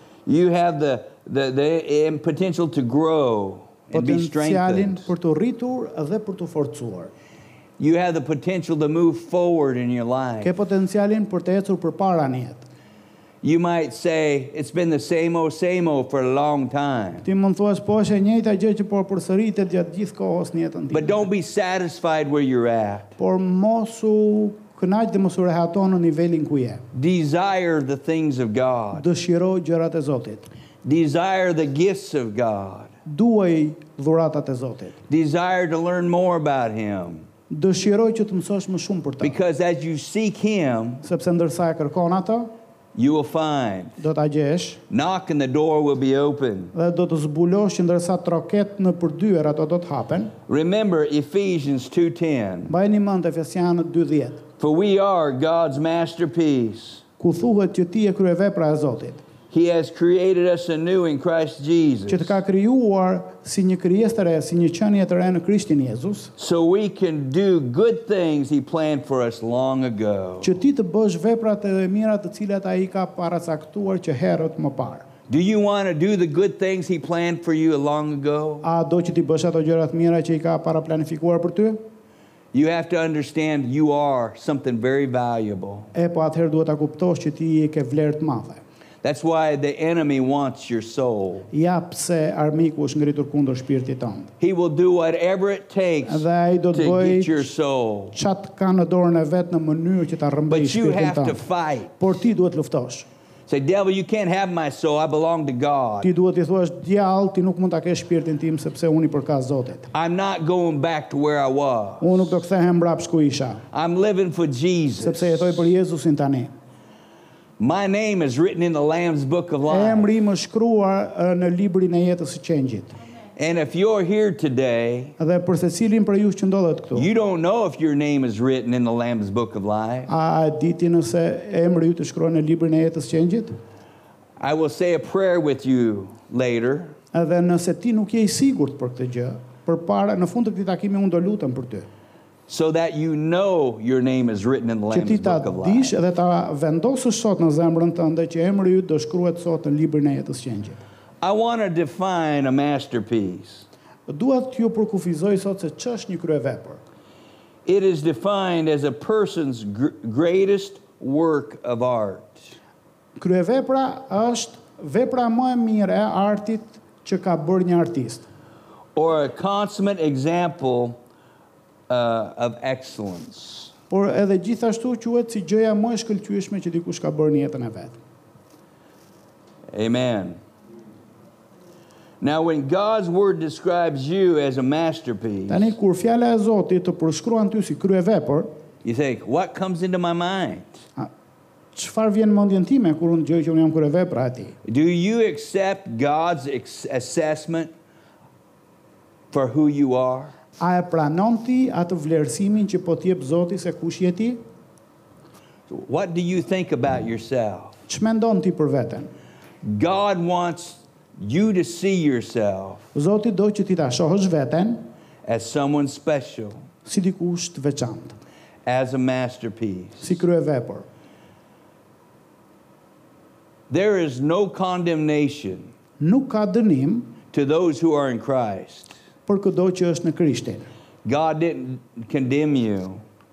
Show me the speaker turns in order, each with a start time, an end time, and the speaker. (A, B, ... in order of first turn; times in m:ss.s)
0:00.3-0:05.1 A
0:03.9-0:07.1 B
0:07.8-0:10.5 A
0:10.4-0:12.6 B
0:13.4-0:17.3 A
0:17.2-0:21.3 B
0:20.9-0:23.2 A
0:23.2-0:26.8 B
0:26.9-0:29.1 A
0:28.9-0:30.5 B
0:30.8-0:32.9 A
0:33.1-0:35.0 B
0:35.1-0:37.3 A
0:37.5-0:39.4 B
0:39.2-0:41.0 A
0:41.0-0:42.5 B
0:43.0-0:44.0 A
0:44.0-0:44.8 B
0:44.9-0:46.7 A
0:46.7-0:50.3 B
0:50.5-0:52.7 A
0:52.7-0:54.4 B
0:54.6-0:57.0 A
0:57.2-0:59.2 B
0:59.5-1:02.4 A
1:02.1-1:06.3 B
1:06.4-1:10.6 A
1:10.4-1:15.1 B
1:15.3-1:18.6 A
1:18.6-1:21.8 B
1:22.5-1:25.9 A
1:25.9-1:28.6 B
1:29.0-1:31.5 A
1:31.5-1:34.3 B
1:34.4-1:38.2 A
1:36.1-1:37.5 B
1:38.1-1:41.4 B
1:40.5-1:41.9 A
1:42.0-1:43.1 B
1:43.5-1:46.1 A
1:46.0-1:49.9 B
1:49.9-1:52.3 A
1:52.0-1:53.6 B
1:53.7-1:55.7 A
1:55.0-1:56.5 B
1:57.6-2:00.1 A
1:59.7-2:03.0 B
2:03.4-2:05.2 A
2:05.2-2:07.1 B
2:07.0-2:10.1 A
2:10.1-2:13.6 B
2:14.4-2:17.0 A
2:17.1-2:21.9 B
2:22.5-2:25.9 A
2:24.9-2:30.8 B
2:31.2-2:33.7 A
2:34.1-2:36.8 B
2:37.7-2:42.5 A
2:43.2-2:48.3 B
2:49.0-2:51.0 A
2:51.9-2:53.7 A
2:53.9-2:58.0 B
2:59.7-3:00.4 A
3:02.2-3:05.7 A
3:05.5-3:08.5 B
3:08.8-3:10.8 A
3:11.7-3:14.6 B
3:14.6-3:17.7 A
3:19.3-3:20.3 A
3:20.6-3:24.4 B
3:25.7-3:27.8 A
3:27.9-3:29.1 B
3:29.6-3:32.9 A
3:32.9-3:34.9 B
3:35.2-3:36.6 A
3:36.8-3:38.2 B
3:38.6-3:40.2 A
3:40.0-3:40.9 B
3:43.7-3:45.7 A
3:46.0-3:47.2 B
3:47.3-3:49.0 A
3:49.3-3:50.7 B
3:51.0-3:53.0 A